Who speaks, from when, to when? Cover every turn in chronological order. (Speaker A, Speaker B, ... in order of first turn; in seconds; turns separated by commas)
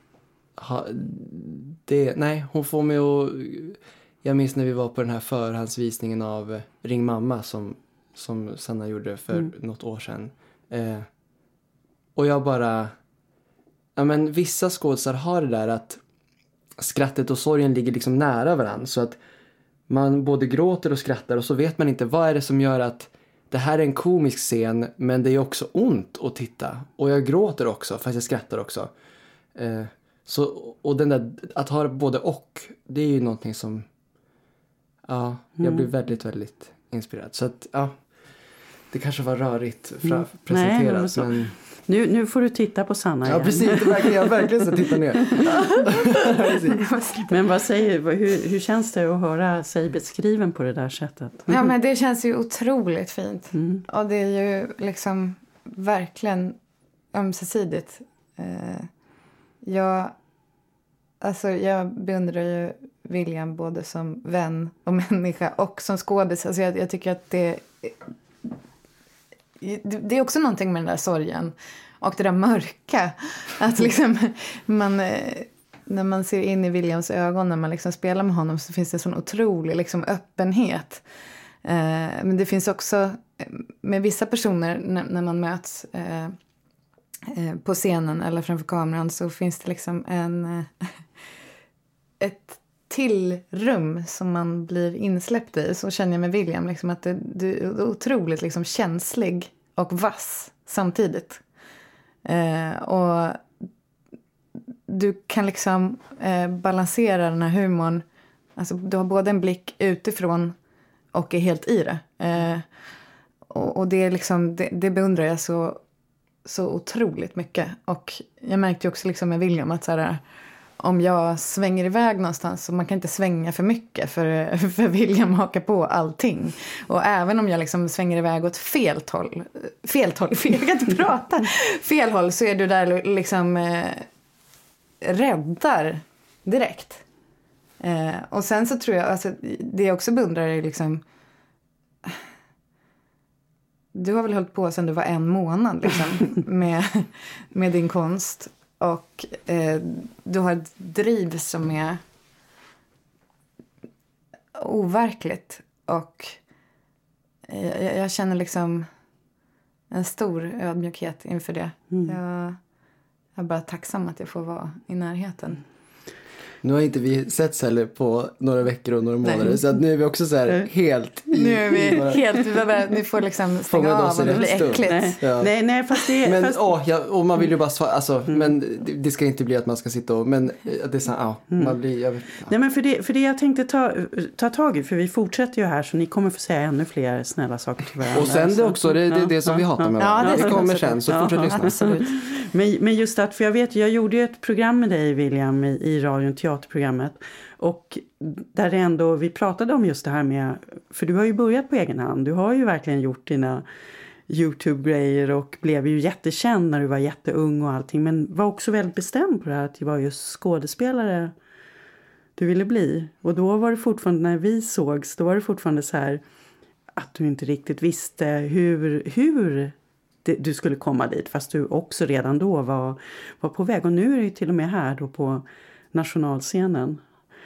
Speaker A: 0.6-11.1, Speaker A: 12.2-12.9, Speaker A: 13.9-16.0, Speaker A: 16.8-19.2, Speaker A: 19.9-28.9, Speaker A: 29.5-33.9, Speaker A: 35.0-37.9, Speaker B: 35.6-35.9, Speaker A: 38.9-41.5, Speaker B: 40.1-44.4, Speaker A: 43.2-46.8, Speaker B: 44.9-45.5, Speaker C: 46.8-47.3, Speaker B: 47.3-51.7, Speaker C: 51.5-56.6, Speaker B: 53.5-53.8, Speaker C: 57.1-58.9, Speaker C: 59.6-60.1, Speaker C: 61.2-68.5, Speaker C: 69.6-81.0, Speaker C: 81.6-86.3, Speaker C: 87.3-91.0, Speaker C: 92.2-101.4, Speaker C: 102.2-103.4, Speaker C: 104.9-108.0, Speaker C: 108.6-110.5, Speaker C: 111.1-112.6, Speaker C: 113.5-115.8, Speaker C: 116.4-120.2, Speaker C: 120.8-134.1, Speaker C: 135.0-137.0, Speaker C: 137.8-141.0, Speaker C: 143.9-152.0, Speaker C: 154.5-156.4, Speaker C: 157.5-158.9, Speaker C: 159.9-162.6, Speaker C: 163.3-165.6, Speaker A: 166.6-172.2, Speaker C: 171.3-175.2, Speaker A: 173.7-175.5, Speaker B: 174.3-176.7, Speaker A: 176.2-182.5, Speaker B: 181.5-181.8, Speaker B: 182.4-203.6, Speaker A: 188.1-191.7, Speaker C: 190.0-192.1, Speaker B: 204.3-211.3, Speaker B: 212.4-216.2, Speaker B: 216.9-219.7, Speaker B: 220.2-227.0